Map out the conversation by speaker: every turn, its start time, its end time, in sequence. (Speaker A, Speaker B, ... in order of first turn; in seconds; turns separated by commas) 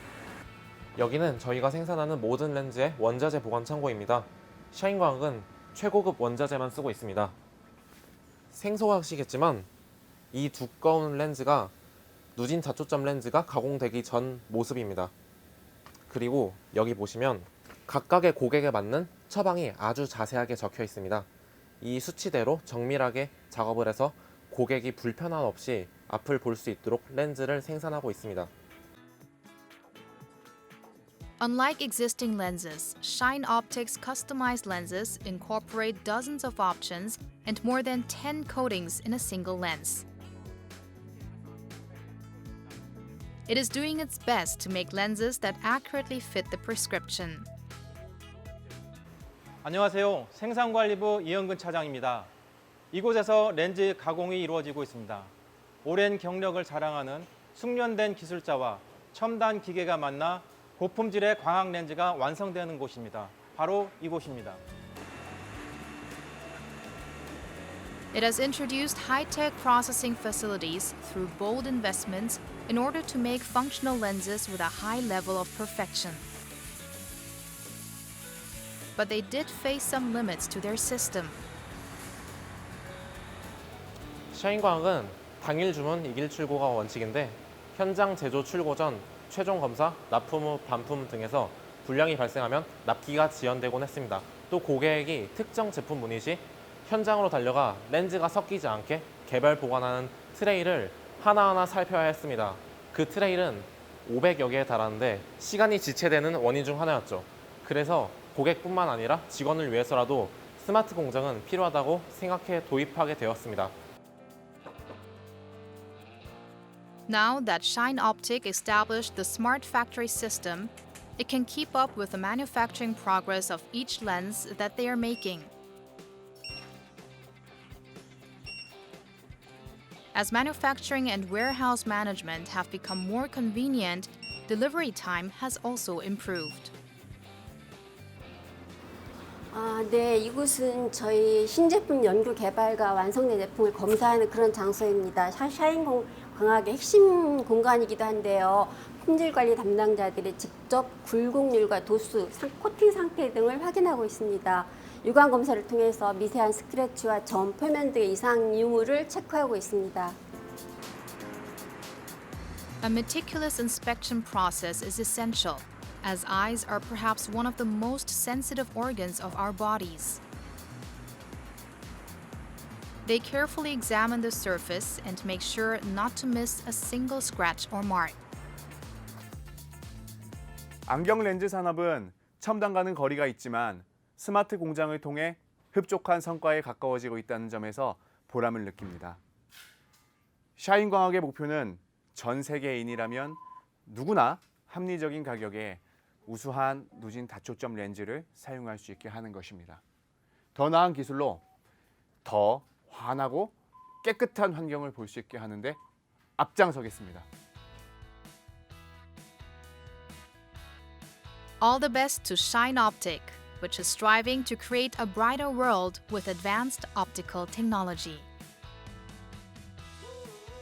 Speaker A: 0.9-7.3, Speaker A: 8.5-9.7, Speaker A: 10.3-11.7, Speaker A: 12.3-15.1, Speaker A: 16.1-21.3, Speaker A: 21.8-28.5, Speaker B: 31.4-40.0, Speaker B: 43.5-47.5, Speaker C: 49.6-52.3, Speaker C: 52.9-55.3, Speaker C: 55.8-64.6, Speaker B: 68.1-76.3, Speaker B: 79.0-81.4, Speaker A: 84.3-113.7, Speaker B: 117.1-125.5, Speaker B: 130.1-136.7, Speaker D: 139.5-160.2, Speaker B: 162.8-170.2, Speaker B: 173.0-178.2, Speaker E: 180.9-189.2, Speaker E: 190.6-199.8, Speaker E: 200.5-201.4, Speaker E: 202.2-205.8, Speaker E: 206.4-207.3, Speaker B: 211.6-218.3